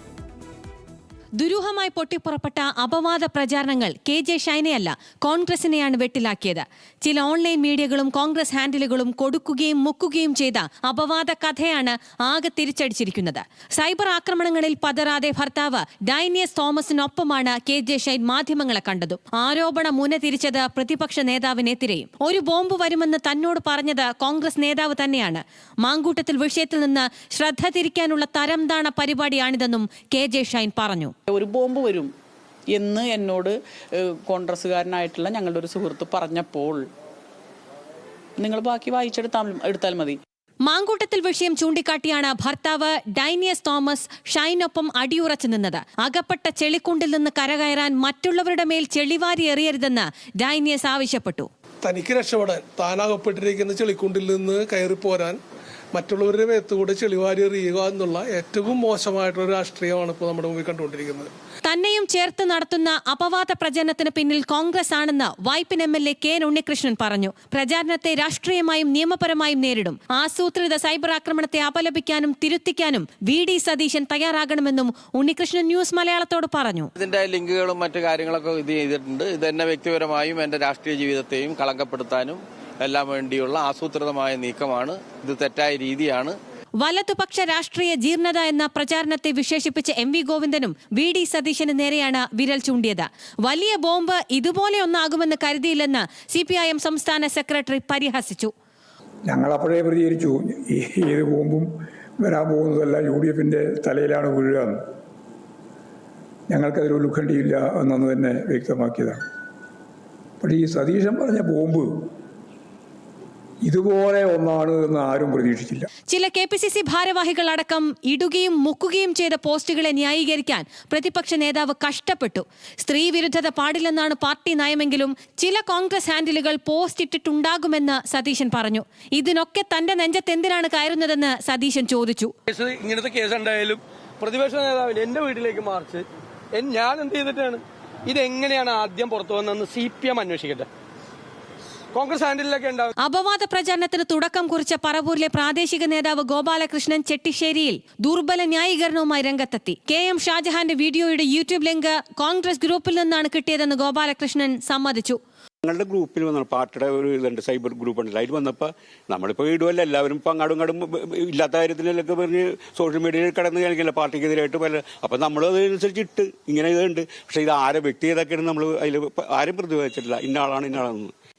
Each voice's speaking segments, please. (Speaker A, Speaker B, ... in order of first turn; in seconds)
Speaker A: 1.4-31.1, 40.6-51.5, 61.6-76.9, 86.8-98.5, 116.1-132.3, 143.0-155.2
Speaker B: 31.3-32.1, 32.7-36.8, 38.4-40.2
Speaker C: 51.8-55.4, 55.9-61.3
Speaker D: 77.0-86.4
Speaker E: 99.3-101.7, 102.2-104.8, 106.5-109.2, 110.4-111.9, 113.7-115.9
Speaker F: 132.5-140.7, 141.9-142.9
Speaker G: 155.6-171.1